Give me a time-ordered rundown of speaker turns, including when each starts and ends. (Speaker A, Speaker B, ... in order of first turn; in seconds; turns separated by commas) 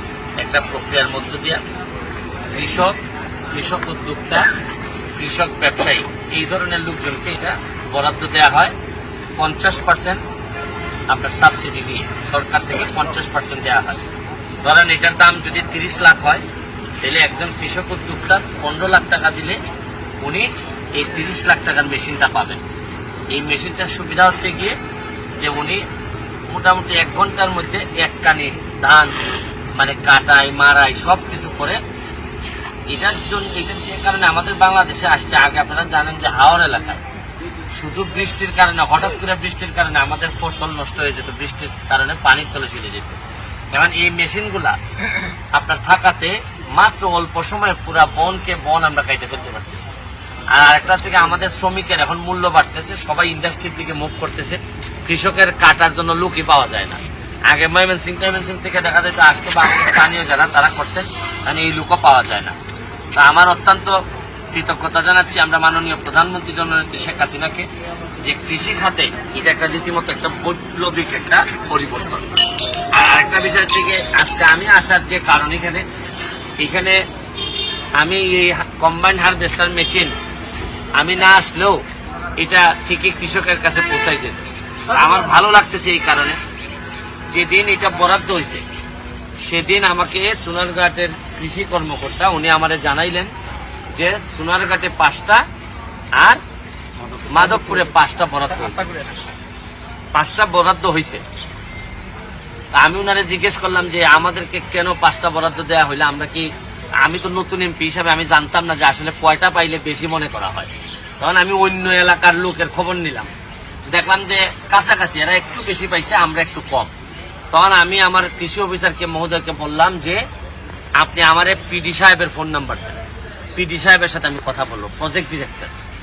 Speaker A: 0.4-1.6, Speaker A: 2.5-3.0, Speaker A: 3.5-4.5, Speaker A: 5.2-8.7, Speaker A: 9.3-10.2, Speaker A: 11.1-14.0, Speaker A: 14.6-16.4, Speaker A: 17.0-19.6, Speaker A: 20.2-22.6, Speaker A: 23.3-24.8, Speaker A: 25.4-25.8, Speaker A: 26.5-29.2, Speaker A: 29.8-31.8, Speaker A: 32.9-37.0, Speaker A: 37.7-43.2, Speaker A: 43.7-44.8, Speaker A: 45.5-49.9, Speaker A: 50.5-62.5, Speaker A: 63.1-64.0, Speaker A: 64.5-67.7, Speaker A: 68.2-72.4, Speaker A: 72.9-75.9, Speaker A: 76.6-77.0, Speaker A: 78.0-80.1, Speaker A: 81.0-81.8, Speaker A: 82.4-86.4, Speaker A: 87.3-88.6, Speaker A: 89.4-93.3, Speaker A: 93.9-95.4, Speaker A: 97.3-99.0, Speaker A: 100.1-101.2, Speaker A: 102.7-106.5, Speaker A: 107.0-113.3, Speaker A: 113.9-116.9, Speaker A: 117.5-120.2, Speaker A: 121.0-123.0, Speaker A: 123.5-125.7